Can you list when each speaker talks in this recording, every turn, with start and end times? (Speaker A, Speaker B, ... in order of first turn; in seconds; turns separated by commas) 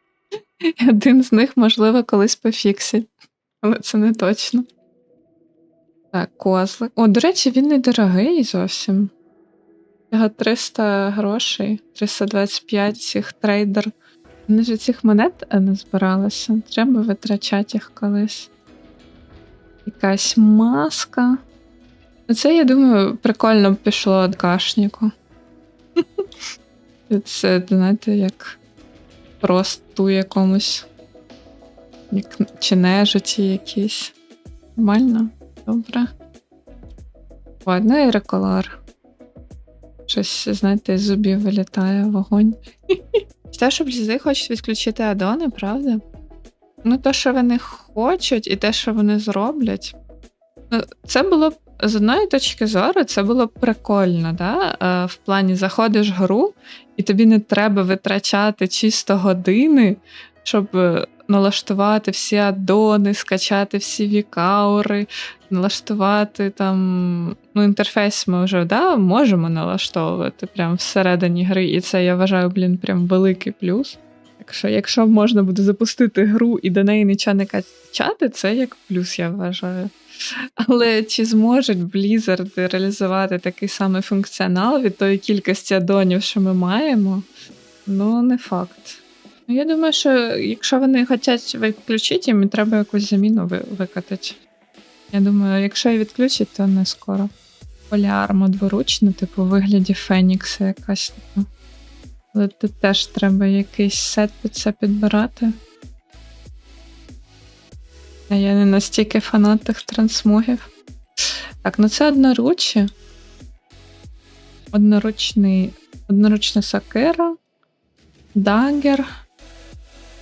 Speaker A: 0.6-3.1, Speaker A: 3.6-4.7, Speaker A: 6.1-9.1, Speaker A: 10.1-13.9, Speaker A: 14.5-18.5, Speaker A: 19.8-21.4, Speaker A: 22.3-25.1, Speaker A: 26.0-26.3, Speaker A: 27.1-28.6, Speaker A: 29.4-30.9, Speaker A: 32.1-34.1, Speaker A: 34.8-36.1, Speaker A: 37.6-38.8, Speaker A: 40.1-46.0, Speaker A: 46.8-49.9, Speaker A: 50.7-79.9, Speaker A: 80.6-87.3, Speaker A: 87.8-94.4, Speaker A: 95.1-97.3, Speaker A: 97.9-101.5, Speaker A: 102.3-105.5, Speaker A: 108.3-110.7, Speaker A: 111.2-112.9, Speaker A: 114.7-117.3, Speaker A: 118.3-119.1